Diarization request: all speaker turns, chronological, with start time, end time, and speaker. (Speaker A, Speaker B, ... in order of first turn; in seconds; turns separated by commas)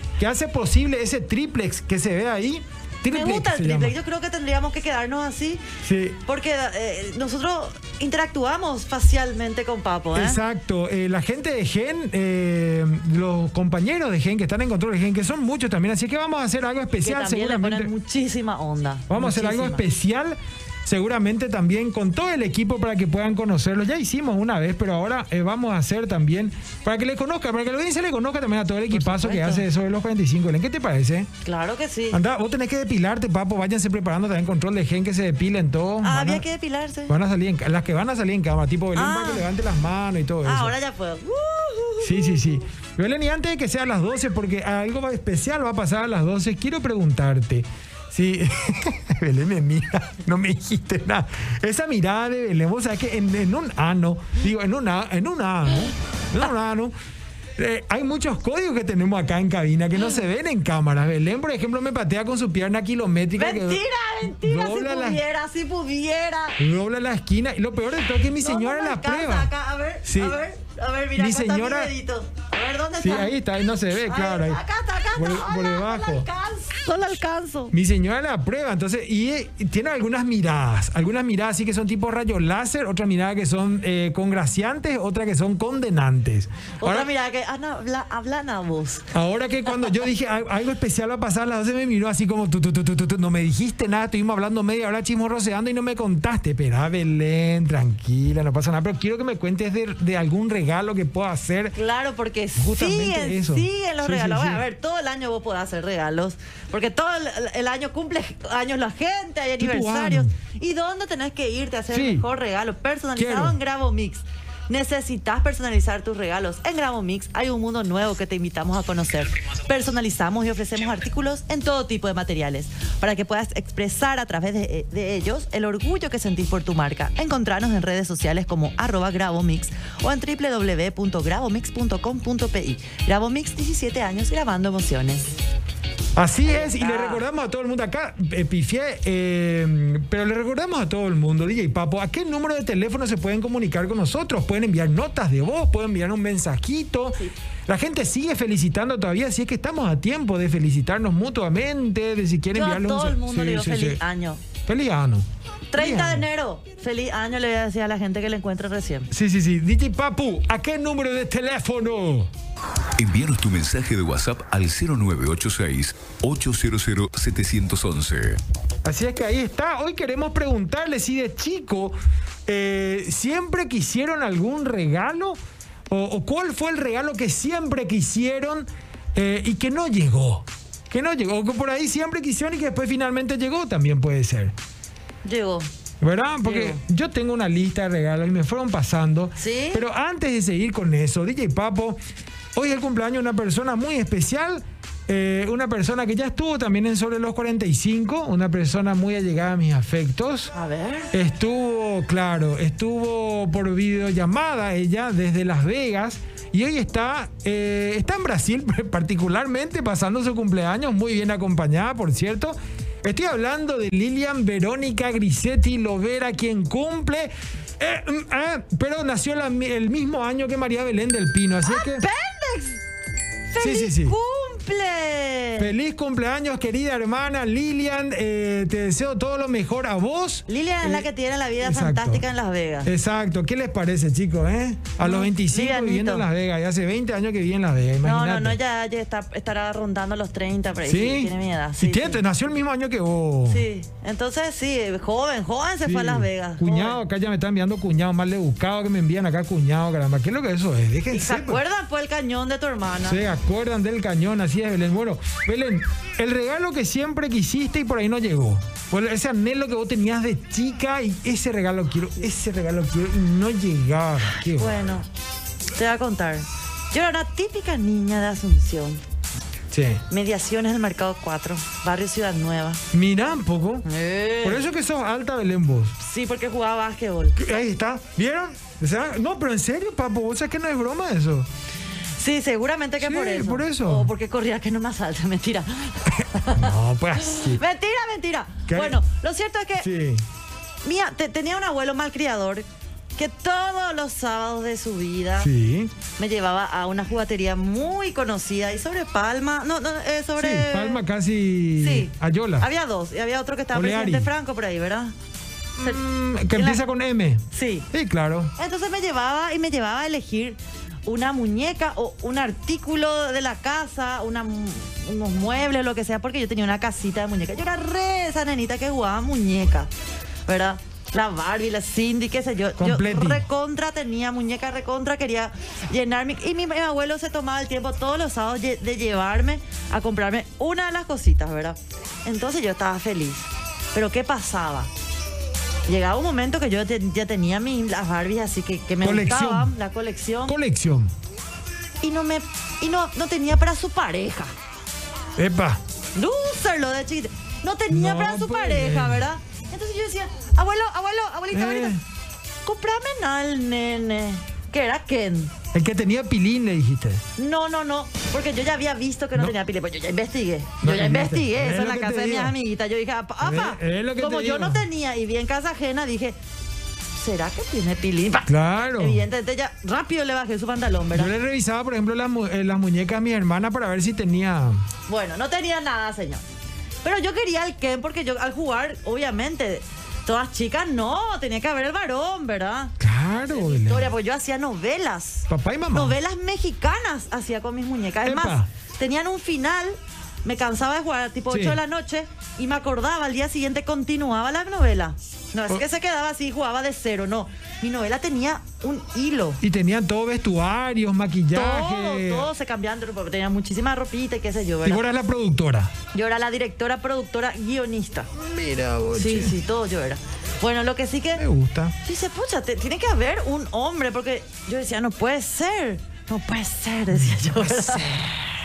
Speaker A: 0.2-3.9, Speaker B: 3.1-5.6, Speaker A: 5.8-6.2, Speaker B: 6.2-10.4, Speaker A: 10.1-17.9, Speaker B: 17.0-19.9, Speaker A: 19.1-31.3, Speaker B: 28.9-29.6, Speaker B: 31.4-32.2, Speaker A: 32.1-36.4, Speaker B: 36.0-37.2, Speaker A: 37.1-40.7, Speaker B: 38.9-39.5, Speaker B: 40.4-42.5, Speaker A: 42.0-56.9, Speaker A: 57.6-63.8, Speaker B: 63.3-66.6, Speaker A: 64.4-65.2, Speaker A: 66.6-69.5, Speaker B: 68.4-73.3, Speaker A: 70.0-70.4, Speaker A: 71.2-71.9, Speaker A: 73.0-74.6, Speaker B: 74.0-77.7, Speaker A: 75.2-76.3, Speaker A: 77.7-87.1, Speaker B: 86.8-89.1, Speaker A: 89.1-101.8, Speaker B: 101.7-135.3, Speaker A: 102.6-104.6, Speaker A: 109.6-110.3, Speaker A: 111.9-112.2, Speaker A: 113.2-113.6, Speaker A: 136.2-154.0, Speaker B: 136.4-137.2, Speaker B: 152.5-154.4, Speaker A: 154.7-156.2, Speaker B: 155.7-159.1, Speaker A: 159.1-162.3, Speaker C: 163.0-168.4, Speaker A: 168.8-175.4, Speaker A: 175.9-184.5, Speaker B: 185.2-185.7, Speaker A: 186.0-192.0, Speaker B: 186.4-186.8, Speaker B: 189.4-189.8, Speaker A: 192.5-200.5, Speaker B: 200.5-201.1, Speaker A: 201.1-222.1, Speaker B: 221.6-222.8, Speaker B: 223.5-225.7, Speaker A: 223.6-224.1, Speaker A: 225.6-231.1, Speaker B: 230.5-232.9, Speaker A: 231.6-232.2, Speaker A: 232.8-238.6, Speaker B: 235.0-236.3, Speaker B: 238.0-242.2, Speaker A: 240.8-243.6, Speaker B: 243.5-247.0, Speaker A: 245.8-251.6, Speaker B: 251.1-253.2, Speaker A: 253.0-265.0, Speaker B: 264.4-265.1, Speaker B: 265.7-269.0, Speaker A: 269.7-270.0, Speaker B: 270.1-272.8, Speaker A: 272.9-273.9, Speaker B: 273.8-274.6, Speaker A: 274.4-275.9, Speaker B: 276.0-277.4, Speaker A: 277.4-281.5, Speaker B: 282.2-289.9, Speaker A: 283.0-284.1, Speaker A: 286.5-287.6, Speaker A: 288.7-289.0, Speaker A: 289.8-290.2, Speaker B: 290.8-295.5, Speaker A: 295.4-295.9, Speaker B: 296.2-301.0, Speaker A: 300.4-302.7, Speaker B: 301.7-305.1, Speaker A: 303.7-304.3, Speaker A: 305.8-308.5, Speaker B: 306.5-306.8, Speaker B: 307.5-307.9, Speaker B: 308.6-319.9, Speaker B: 320.4-334.9, Speaker A: 322.8-323.4, Speaker B: 335.9-340.6, Speaker A: 339.0-339.7, Speaker A: 340.4-341.1, Speaker B: 342.0-344.5, Speaker A: 345.4-345.8, Speaker B: 346.1-352.0, Speaker A: 347.9-349.2, Speaker A: 351.5-352.0, Speaker B: 352.6-355.5, Speaker A: 355.7-357.2, Speaker B: 357.4-366.4, Speaker A: 360.8-362.5, Speaker A: 363.4-364.8, Speaker B: 367.1-371.3, Speaker A: 368.5-369.2, Speaker A: 371.1-374.8, Speaker B: 375.1-376.4, Speaker B: 377.0-382.9, Speaker A: 383.0-384.1, Speaker B: 383.5-399.6, Speaker A: 385.5-386.1, Speaker A: 388.2-388.7, Speaker A: 391.5-391.8, Speaker A: 399.6-402.5, Speaker B: 401.5-405.0, Speaker A: 404.8-405.9, Speaker B: 406.1-408.3, Speaker A: 408.3-409.6, Speaker B: 409.1-411.4, Speaker A: 411.4-411.9, Speaker B: 412.0-418.3, Speaker A: 417.1-418.3